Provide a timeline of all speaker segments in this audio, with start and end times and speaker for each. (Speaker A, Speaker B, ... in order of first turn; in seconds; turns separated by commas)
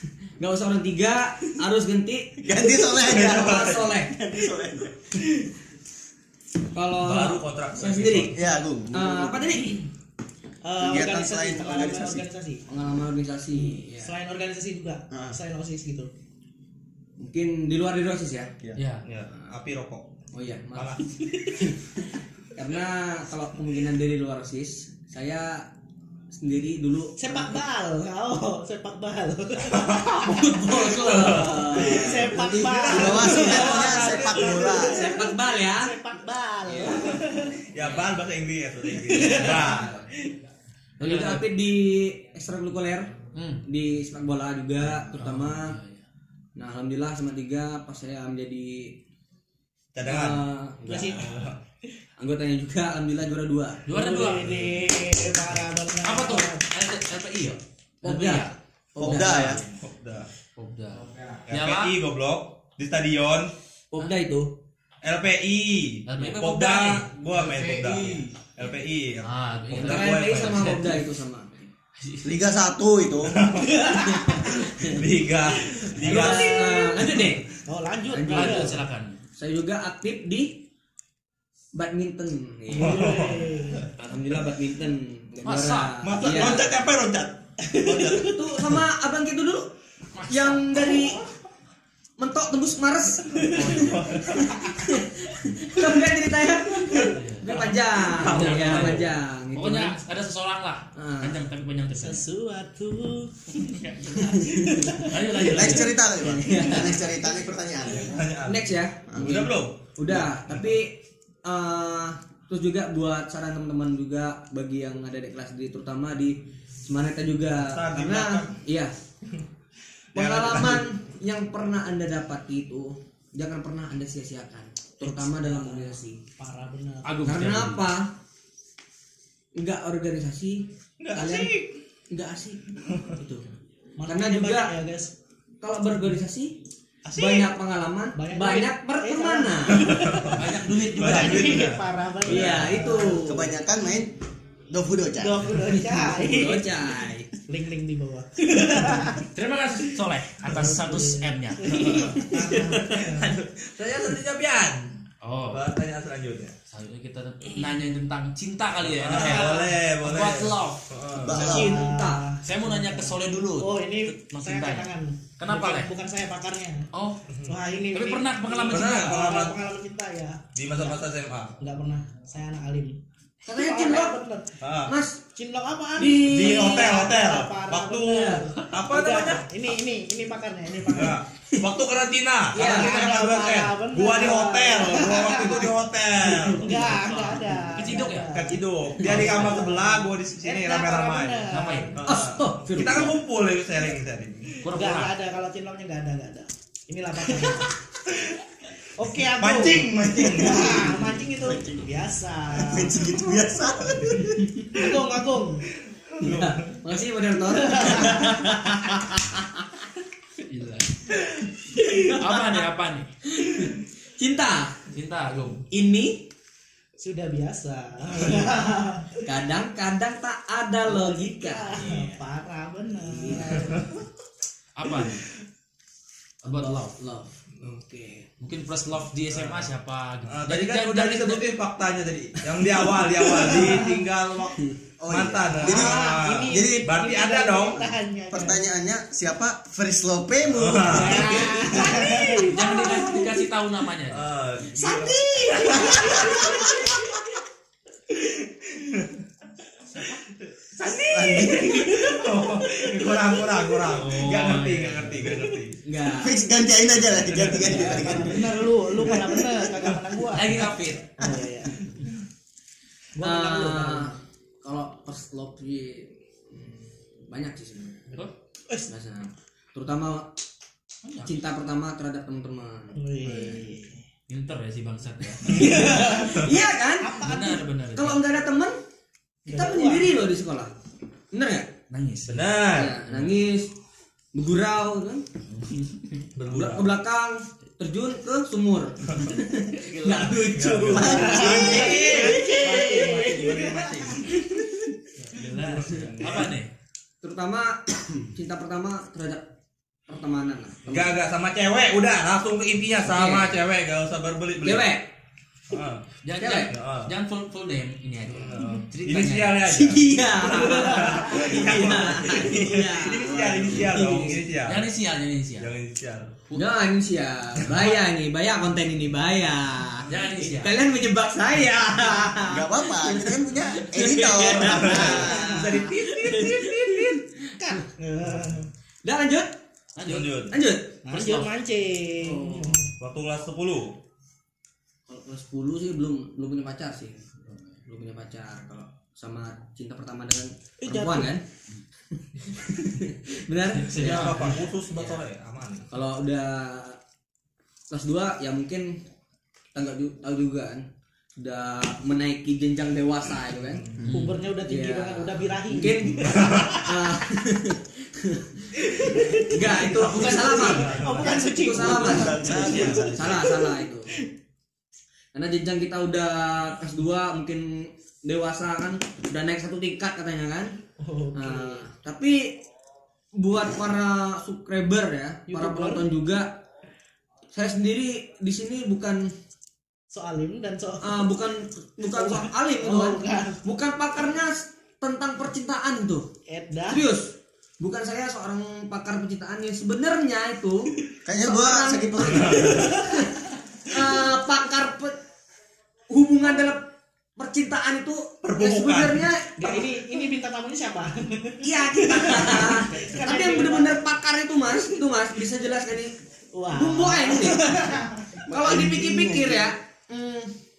Speaker A: 0.4-4.6, Speaker B: 2.4-4.9, Speaker C: 3.0-4.0, Speaker A: 6.7-8.4, Speaker C: 7.0-8.4, Speaker B: 8.3-9.7, Speaker A: 8.9-9.8, Speaker D: 10.6-12.7, Speaker B: 10.8-12.2, Speaker A: 12.7-14.1, Speaker D: 13.5-16.1, Speaker B: 15.1-15.3, Speaker A: 17.2-18.5, Speaker E: 18.8-19.1, Speaker C: 19.0-20.1, Speaker A: 20.3-22.0, Speaker C: 20.7-21.6, Speaker A: 22.5-25.6, Speaker A: 26.3-27.6, Speaker D: 27.2-30.4, Speaker C: 29.6-34.7, Speaker A: 30.2-32.4, Speaker D: 31.2-37.6, Speaker B: 32.2-35.1, Speaker A: 33.0-35.9, Speaker A: 36.7-37.0, Speaker C: 36.8-40.0, Speaker D: 39.0-40.3, Speaker A: 41.0-45.8, Speaker E: 41.0-41.5, Speaker E: 43.3-43.6, Speaker E: 45.0-46.0, Speaker A: 46.5-49.0, Speaker C: 49.9-51.5, Speaker A: 50.0-50.8, Speaker D: 50.9-51.3, Speaker B: 50.9-51.1, Speaker A: 52.2-53.9, Speaker E: 53.9-55.5, Speaker D: 53.9-56.6, Speaker E: 56.0-58.5, Speaker A: 58.0-59.6, Speaker B: 59.0-59.6, Speaker C: 59.0-60.3, Speaker E: 59.3-59.6, Speaker E: 60.5-62.0, Speaker C: 61.5-63.5, Speaker A: 63.9-64.5, Speaker C: 65.0-70.8, Speaker E: 66.0-68.3, Speaker E: 69.2-70.9, Speaker A: 69.7-71.7, Speaker E: 72.0-72.3, Speaker B: 72.2-73.5, Speaker C: 73.3-77.4, Speaker D: 73.6-74.7, Speaker A: 74.3-75.0, Speaker A: 76.0-77.5, Speaker D: 76.0-77.0, Speaker E: 76.1-76.3, Speaker D: 77.7-78.8, Speaker A: 78.1-78.8, Speaker E: 78.3-79.2, Speaker A: 79.3-80.6, Speaker A: 81.7-83.3, Speaker D: 82.7-83.9, Speaker C: 82.8-83.9, Speaker E: 83.9-84.3, Speaker A: 84.0-86.7, Speaker E: 85.4-86.0, Speaker C: 86.0-88.3, Speaker D: 87.6-88.3, Speaker A: 88.0-89.7, Speaker E: 90.1-90.9, Speaker A: 90.3-91.2, Speaker A: 92.2-93.8, Speaker E: 93.4-94.2, Speaker C: 93.5-94.9, Speaker A: 94.7-100.0, Speaker C: 96.9-99.0, Speaker E: 97.0-102.3, Speaker A: 100.9-101.4, Speaker D: 102.0-105.4, Speaker E: 103.6-106.0, Speaker A: 104.4-105.0, Speaker B: 105.4-108.2, Speaker A: 106.1-107.0, Speaker C: 107.8-110.7, Speaker A: 108.4-118.9, Speaker B: 109.1-109.5, Speaker C: 117.6-118.5, Speaker C: 120.1-120.8, Speaker A: 120.1-126.2, Speaker D: 125.0-127.1, Speaker E: 127.0-127.9, Speaker A: 127.2-128.1, Speaker A: 129.6-131.5, Speaker C: 131.0-131.8, Speaker A: 132.1-132.6, Speaker A: 133.2-133.5, Speaker D: 134.0-135.1, Speaker A: 134.1-134.7, Speaker A: 135.6-136.6, Speaker C: 137.1-137.5, Speaker A: 137.1-140.2, Speaker D: 138.2-140.2, Speaker C: 139.7-142.7, Speaker E: 140.3-141.7, Speaker D: 141.0-143.3, Speaker A: 142.2-143.5, Speaker B: 143.2-144.1, Speaker B: 144.7-145.6, Speaker D: 145.2-146.7, Speaker A: 145.8-147.3, Speaker D: 147.5-149.2, Speaker E: 149.1-152.3, Speaker D: 150.4-153.3, Speaker C: 152.3-154.9, Speaker E: 155.2-155.6, Speaker C: 155.5-156.6, Speaker E: 156.7-160.8, Speaker C: 158.8-161.5, Speaker D: 159.1-159.7, Speaker B: 161.2-161.8, Speaker A: 161.3-162.3, Speaker D: 161.3-166.9, Speaker E: 162.4-165.9, Speaker E: 166.9-167.3, Speaker D: 167.5-171.0, Speaker E: 167.9-169.2, Speaker C: 168.7-169.6, Speaker C: 170.6-171.6, Speaker D: 171.6-174.6, Speaker A: 173.5-174.2, Speaker C: 174.6-174.9, Speaker A: 174.8-175.2, Speaker D: 175.3-181.2, Speaker A: 176.0-177.0, Speaker C: 176.3-179.4, Speaker C: 180.9-187.2, Speaker A: 182.5-182.9, Speaker D: 182.5-185.7, Speaker D: 186.5-191.9, Speaker E: 187.0-188.3, Speaker C: 188.3-194.6, Speaker E: 189.0-189.6, Speaker E: 191.5-192.0, Speaker A: 192.0-193.2, Speaker E: 194.6-195.2, Speaker D: 194.7-197.7, Speaker A: 197.4-197.7, Speaker D: 198.9-203.0, Speaker C: 199.4-201.0, Speaker B: 202.5-204.5, Speaker D: 204.7-205.7, Speaker C: 206.1-206.8, Speaker A: 206.2-209.6, Speaker D: 207.5-208.5, Speaker E: 210.4-211.1, Speaker A: 211.7-212.6, Speaker E: 211.8-213.1, Speaker A: 213.3-214.8, Speaker E: 214.9-215.6, Speaker A: 215.7-216.3, Speaker D: 217.0-219.2, Speaker A: 219.2-221.9, Speaker D: 220.8-223.9, Speaker A: 223.0-223.8, Speaker C: 223.5-223.8, Speaker E: 224.8-225.2, Speaker E: 226.4-227.0, Speaker A: 226.5-228.3, Speaker E: 228.4-231.4, Speaker C: 229.3-229.7, Speaker C: 230.3-237.9, Speaker A: 232.6-233.8, Speaker B: 235.0-236.9, Speaker D: 235.6-238.6, Speaker B: 238.3-241.5, Speaker C: 240.5-241.3, Speaker E: 240.9-244.3, Speaker D: 240.9-242.8, Speaker C: 244.1-247.1, Speaker A: 244.7-246.9, Speaker B: 245.6-246.7, Speaker D: 245.6-246.3, Speaker C: 248.1-249.2, Speaker C: 250.0-255.8, Speaker B: 251.1-251.9, Speaker E: 253.9-255.4, Speaker A: 255.8-256.4, Speaker B: 256.2-259.9, Speaker C: 257.1-257.8, Speaker A: 257.3-258.3, Speaker D: 257.8-260.6, Speaker E: 260.3-261.1, Speaker A: 260.4-260.7, Speaker D: 261.2-261.9, Speaker D: 263.1-264.2, Speaker A: 263.2-268.2, Speaker A: 268.9-270.4, Speaker E: 271.0-271.3, Speaker A: 271.2-273.6, Speaker D: 272.9-274.0, Speaker E: 274.3-275.8, Speaker C: 275.5-276.5, Speaker A: 275.5-277.2, Speaker D: 275.5-277.7, Speaker E: 277.2-278.2, Speaker A: 277.9-278.8, Speaker D: 279.5-280.1, Speaker A: 279.5-280.7, Speaker A: 281.3-281.7, Speaker E: 281.9-282.6, Speaker C: 282.3-283.0, Speaker A: 282.7-283.7, Speaker A: 284.3-285.2, Speaker E: 285.5-286.2, Speaker C: 286.4-286.9, Speaker A: 286.5-293.2, Speaker E: 289.8-290.3, Speaker C: 290.0-294.6, Speaker B: 290.9-292.2, Speaker D: 291.1-294.4, Speaker E: 295.1-296.7, Speaker C: 295.5-296.5, Speaker A: 297.2-299.4, Speaker A: 300.1-301.2, Speaker C: 300.9-304.9, Speaker A: 303.1-303.6, Speaker A: 304.6-305.1, Speaker C: 305.7-307.1, Speaker E: 306.2-309.8, Speaker A: 306.4-306.7, Speaker C: 308.3-314.9, Speaker A: 309.6-314.4, Speaker E: 314.6-315.7, Speaker C: 315.6-316.4, Speaker A: 316.5-327.7, Speaker E: 320.1-320.8, Speaker B: 322.4-325.5, Speaker C: 324.4-327.2, Speaker D: 325.0-325.8, Speaker D: 327.6-328.7, Speaker A: 329.0-329.6, Speaker E: 330.0-330.3, Speaker C: 330.0-330.5, Speaker A: 330.5-331.0, Speaker D: 331.0-332.9, Speaker E: 331.1-331.5, Speaker E: 332.4-332.7, Speaker C: 333.0-333.9, Speaker A: 335.1-337.3, Speaker A: 337.8-341.4, Speaker D: 340.8-341.3, Speaker A: 342.1-344.6, Speaker E: 343.7-345.2, Speaker C: 344.0-345.9, Speaker A: 345.9-347.0, Speaker A: 347.9-349.0, Speaker A: 349.7-350.8, Speaker A: 351.4-353.8, Speaker E: 354.0-354.4, Speaker D: 354.1-357.1, Speaker A: 354.6-358.7, Speaker C: 356.2-356.8, Speaker D: 358.8-363.4, Speaker A: 359.5-364.1, Speaker C: 359.8-363.4, Speaker E: 360.3-361.0, Speaker B: 361.0-363.4, Speaker A: 365.3-370.7, Speaker D: 371.0-371.8, Speaker A: 371.3-372.6, Speaker A: 373.4-376.6, Speaker D: 375.5-376.0, Speaker A: 377.5-379.3, Speaker D: 380.1-381.3, Speaker A: 381.0-386.3, Speaker D: 382.1-383.6, Speaker D: 386.5-387.0, Speaker A: 386.9-387.2, Speaker A: 387.8-395.2, Speaker B: 391.2-393.0, Speaker C: 392.4-392.9, Speaker A: 396.1-396.9, Speaker A: 397.4-399.9, Speaker C: 398.4-399.3, Speaker D: 399.6-404.0, Speaker A: 401.6-406.1, Speaker D: 406.5-408.3, Speaker A: 406.7-407.7, Speaker B: 408.4-409.7, Speaker A: 408.5-410.5